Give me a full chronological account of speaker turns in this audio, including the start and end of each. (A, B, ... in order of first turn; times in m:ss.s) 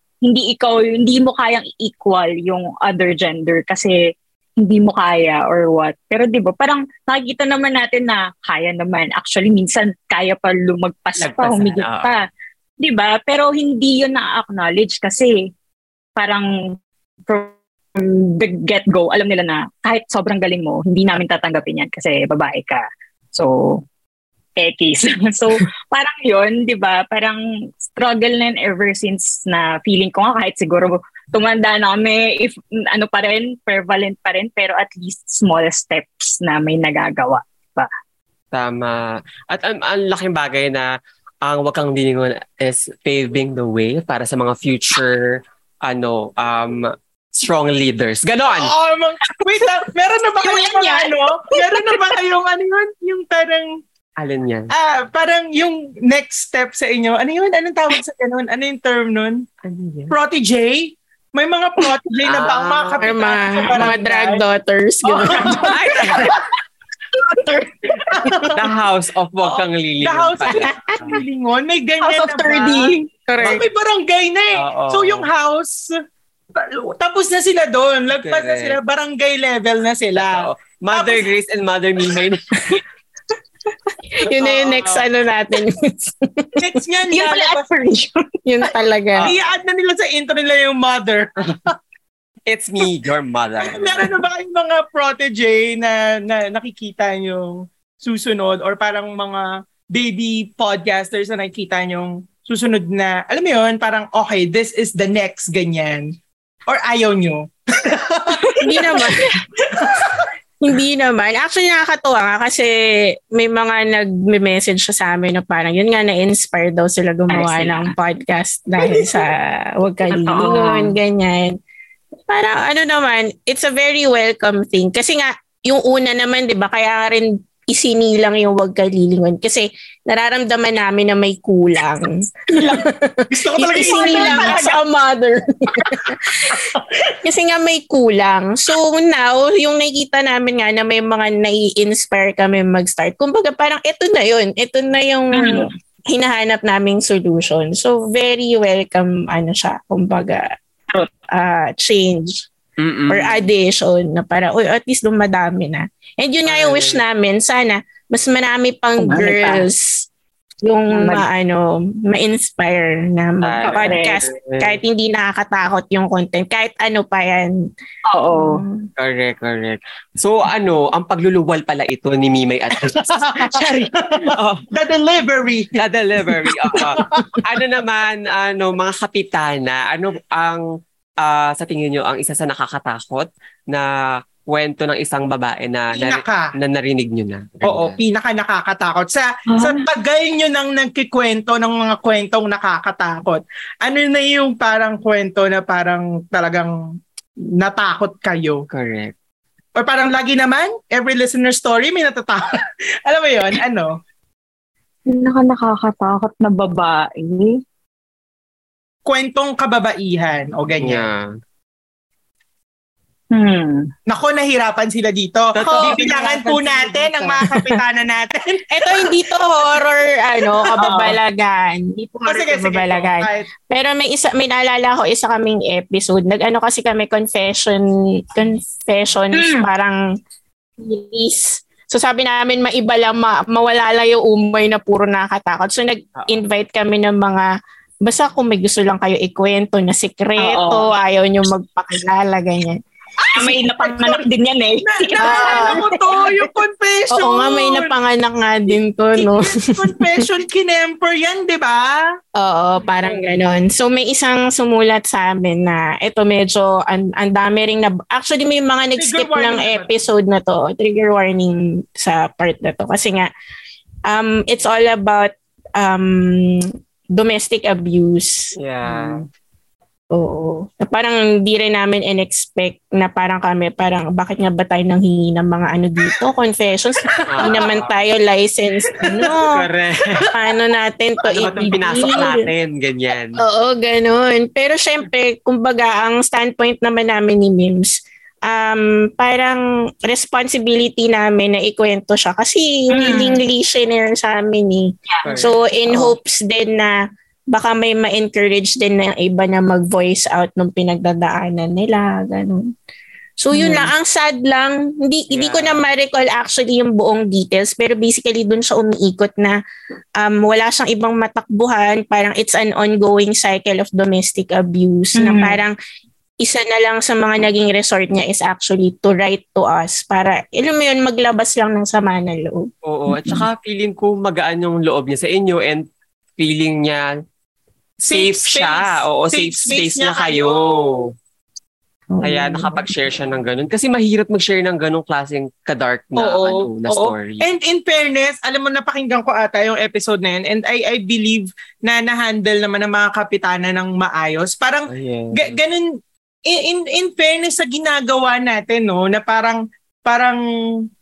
0:00.2-0:04.0 A
0:04.6-0:12.2 A
0:11.2-0:12.1 B
0:12.8-0:15.5 A
0:16.2-0:16.8 A
0:17.3-0:23.8 A
0:24.6-0:37.9 A
0:38.5-0:40.9 B
0:41.4-0:48.7 B
0:48.5-0:53.8 C
0:50.4-0:52.0 A
0:54.2-0:54.7 B
0:54.7-0:59.5 C
0:59.6-1:00.1 B
1:00.1-1:04.4 C
1:02.2-1:03.1 B
1:03.0-1:06.3 D
1:05.1-1:06.4 C
1:05.4-1:06.4 B
1:08.1-1:08.6 C
1:08.5-1:11.1 B
1:09.4-1:15.9 C
1:10.5-1:11.2 D
1:12.0-1:13.0 A
1:13.3-1:13.6 D
1:14.5-1:15.3 B
1:16.5-1:21.3 C
1:18.1-1:18.8 B
1:20.2-1:22.8 B
1:24.2-1:26.6 D
1:24.4-1:24.8 C
1:24.4-1:25.0 B
1:26.6-1:27.7 C
1:27.1-1:28.7 A
1:28.4-1:29.3 D
1:29.2-1:31.7 C
1:32.5-1:34.1 B
1:33.7-1:46.1 C
1:46.7-1:49.1 C
1:48.4-1:49.4 A
1:48.6-1:49.3 D
1:49.7-1:50.2 C
1:50.6-2:01.6 D
1:57.3-1:57.9 A
1:58.8-1:59.2 A
2:00.1-2:01.0 A
2:02.3-2:30.6 D
2:12.5-2:12.8 A
2:13.3-2:14.8 C
2:13.7-2:14.6 A
2:16.5-2:16.8 C
2:25.3-2:25.7 A
2:31.3-2:32.5 D
2:32.8-2:33.4 B
2:33.1-2:40.1 D
2:36.4-2:37.0 B
2:39.0-2:39.7 A
2:40.6-2:47.7 D
2:40.9-2:41.3 A
2:43.4-2:44.8 B
2:43.6-2:44.2 A
2:48.1-2:48.6 A
2:48.3-2:48.9 D
2:49.0-2:53.7 B
2:52.7-2:55.8 C
2:54.2-2:54.6 B
2:55.8-3:00.6 B
2:56.7-2:57.4 C
3:01.2-3:08.0 B
3:05.9-3:06.5 C
3:07.6-3:16.7 C
3:09.5-3:09.9 A
3:17.6-3:18.6 C
3:18.7-3:19.1 B
3:19.7-3:24.0 C
3:25.1-3:27.6 A
3:29.0-3:31.1 C
3:30.8-3:31.3 B
3:33.3-3:33.9 A
3:34.1-3:39.1 C
3:35.5-3:35.9 B
3:35.7-3:37.6 D
3:38.7-3:50.0 D
3:40.7-3:41.1 C
3:40.8-3:41.2 A
3:42.2-3:43.5 C
3:49.3-3:49.7 A
3:50.8-3:57.5 D
3:58.0-4:02.8 D
4:00.4-4:00.9 A
4:03.2-4:04.2 C
4:03.3-4:06.5 A
4:04.8-4:07.9 C
4:05.2-4:05.9 D
4:07.1-4:10.2 D
4:09.2-4:12.0 C
4:12.3-4:23.3 D
4:19.0-4:20.0 C
4:24.0-4:28.5 D
4:28.5-4:29.2 B
4:28.9-4:29.2 A
4:30.1-4:39.6 D
4:37.3-4:37.9 B
4:39.0-4:39.4 C
4:39.1-4:40.3 B
4:40.2-4:42.4 D
4:41.2-4:43.4 B
4:43.4-4:57.0 D
4:52.9-4:53.4 A
4:55.1-4:55.4 A
4:55.2-4:55.5 B
4:55.9-4:56.1 A
4:57.5-5:02.7 D
5:03.4-5:09.6 D
5:03.5-5:03.9 A
5:05.3-5:05.8 B
5:10.2-5:15.8 D
5:15.1-5:15.6 A
5:16.4-5:22.7 D
5:22.8-5:25.8 B
5:26.4-5:27.1 B
5:28.0-5:31.0 C
5:28.1-5:31.1 B
5:32.1-5:32.8 D
5:32.2-5:37.4 B
5:36.2-5:50.4 C
5:44.9-5:45.6 B